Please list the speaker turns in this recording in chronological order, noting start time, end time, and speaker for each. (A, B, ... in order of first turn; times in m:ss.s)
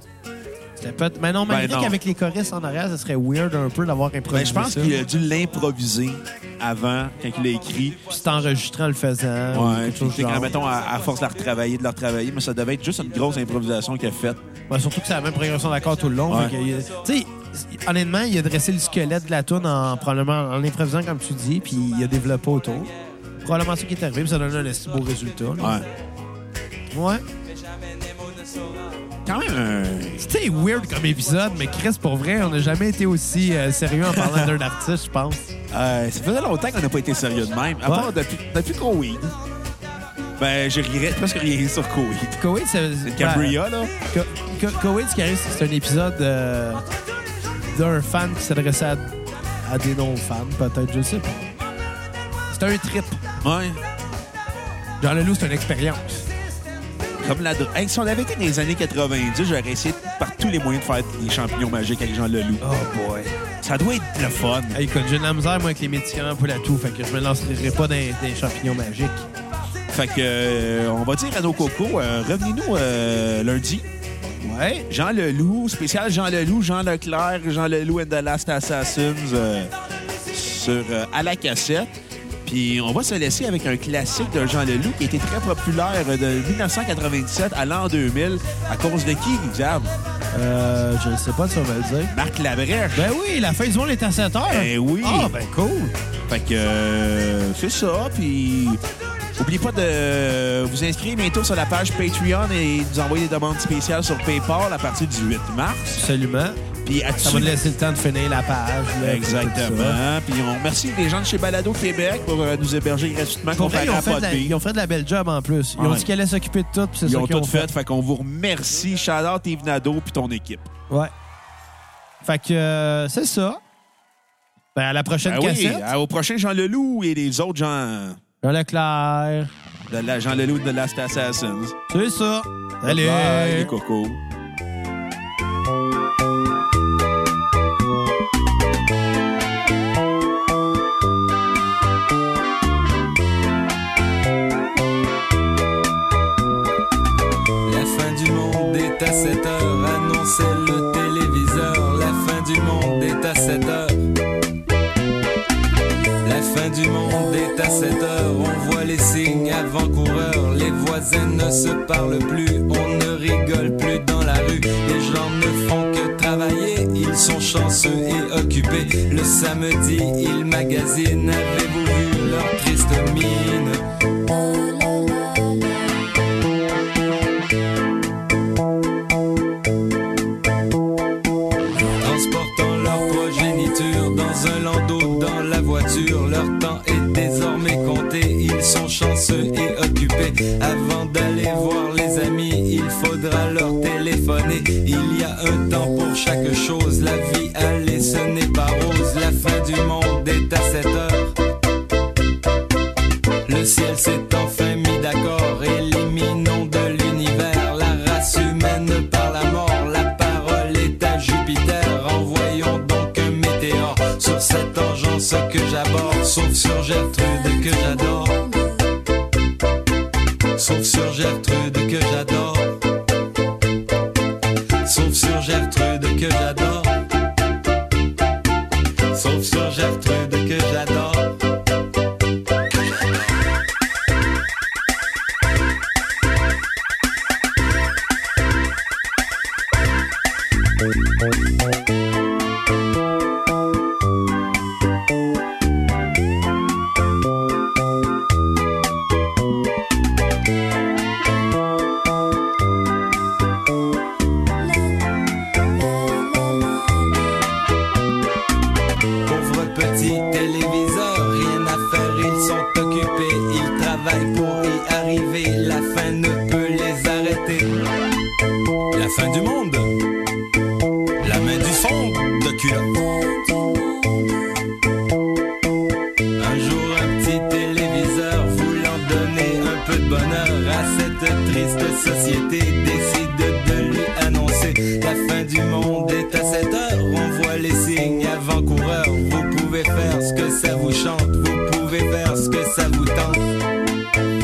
0:00.8-0:05.0 A
0:01.5-0:02.0 B
0:04.3-0:08.0 B
0:08.1-0:10.5 A
0:09.5-0:14.4 B
0:14.7-0:25.8 A
0:16.3-0:16.5 B
0:25.6-0:25.9 B
0:26.9-0:27.2 A
0:29.2-0:30.2 B
0:30.2-0:35.5 A
0:34.1-0:34.5 B
0:35.7-0:39.4 B
0:37.8-0:38.1 A
0:40.4-0:42.4 B
0:42.4-0:46.8 A
0:43.0-0:43.9 B
0:47.6-0:51.5 A
0:52.5-0:53.2 A
0:53.4-0:53.8 B
0:55.0-0:56.3 A
0:57.2-1:02.6 B
1:02.6-1:03.4 A
1:03.6-1:04.8 B
1:04.7-1:09.3 A
1:09.9-1:13.9 B
1:14.4-1:14.9 A
1:14.9-1:19.7 B
1:20.3-1:29.9 B
1:30.3-1:32.1 A
1:32.1-1:33.1 B
1:32.9-1:36.0 A
1:34.5-1:35.4 B
1:36.3-1:38.8 B
1:39.4-1:46.0 B
1:45.9-1:46.6 A
1:46.8-1:47.6 B
1:47.2-1:50.0 A
1:49.0-1:54.6 B
1:53.6-1:57.7 A
1:55.8-1:56.1 B
1:57.0-2:00.7 B
2:02.2-2:03.6 A
2:04.8-2:05.9 A
2:05.2-2:08.2 B
2:08.4-2:09.5 A
2:09.9-2:11.8 B
2:11.9-2:13.7 A
2:12.8-2:14.2 B
2:27.7-2:34.0 C
2:36.2-2:53.8 C
2:54.8-2:55.2 C
3:02.0-3:21.4 C
3:23.5-3:38.8 C
3:40.6-3:42.8 C
3:44.8-3:47.0 C
3:49.1-3:51.4 C
4:16.0-4:17.3 C
4:19.3-4:27.8 C
4:28.9-4:30.0 C
4:31.2-4:34.2 C
4:36.4-4:53.5 C